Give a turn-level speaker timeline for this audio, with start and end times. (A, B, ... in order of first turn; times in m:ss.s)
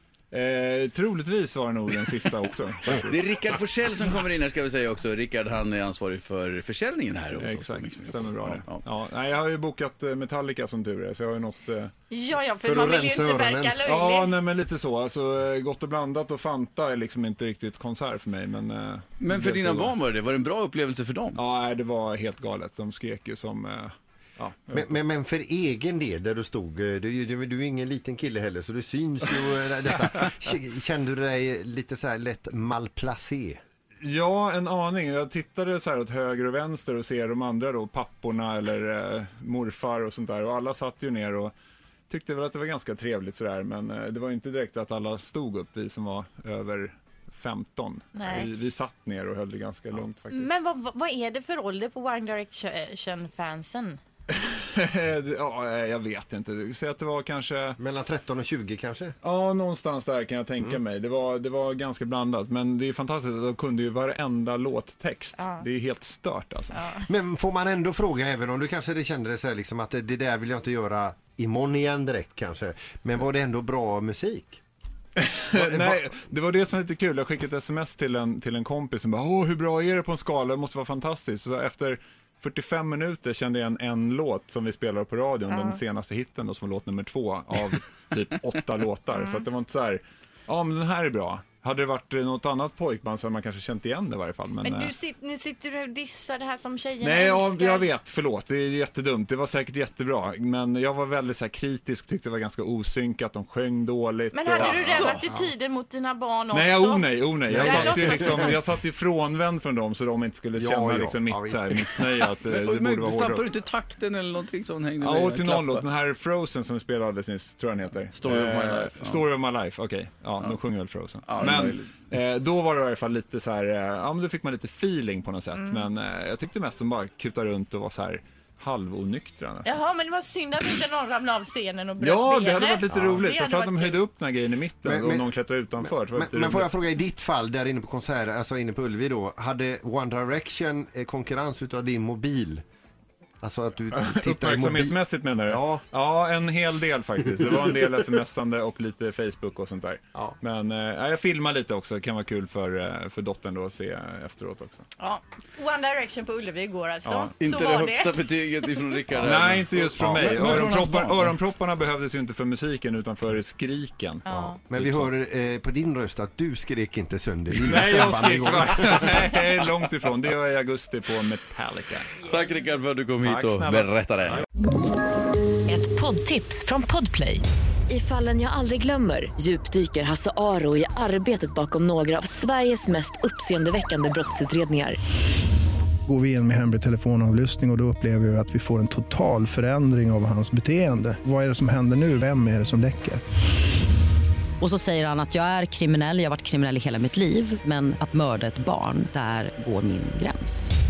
0:00.3-0:03.1 A
0:03.0-0:08.8 B
0:07.4-0:11.9 A
0:12.1-0:14.3 C
0:12.6-0:13.8 D
0:13.8-0:19.9 A
0:19.2-0:21.4 B
0:21.4-0:24.9 A
0:24.7-0:33.6 D
0:34.0-0:41.5 A
0:42.1-0:50.5 A
0:48.1-0:48.5 C
0:50.3-0:54.0 C
0:54.3-0:57.8 A
0:57.8-0:59.2 D
0:59.2-1:06.8 A
1:05.4-1:05.6 C
1:06.7-1:07.0 C
1:07.0-1:14.6 D
1:15.1-1:34.9 A
1:15.5-1:16.1 D
1:25.5-1:25.8 C
1:29.1-1:29.4 C
1:34.6-1:37.9 C
1:37.0-1:44.9 A
1:44.3-1:48.6 C
1:44.6-1:45.2 B
1:46.5-1:53.5 A
1:47.5-1:48.6 D
1:50.5-1:52.2 D
1:52.4-1:55.8 B
1:55.0-2:09.8 A
1:58.1-1:59.2 B
2:01.2-2:01.9 B
2:09.6-2:14.0 C
2:12.0-2:16.7 A
2:12.9-2:13.2 D
2:14.8-2:22.6 D
2:23.4-2:25.8 D
2:24.0-2:34.8 A
2:35.0-2:38.2 C
2:37.0-2:37.3 A
2:37.4-2:41.4 B
2:39.2-2:44.2 A
2:40.0-2:40.4 D
2:44.2-2:44.6 C
2:44.3-2:49.3 D
2:44.8-2:45.1 A
2:47.6-2:52.2 A
2:52.2-2:54.4 B
2:53.2-2:54.4 A
2:55.6-3:05.0 E
3:06.1-3:13.2 F
3:14.6-3:20.7 G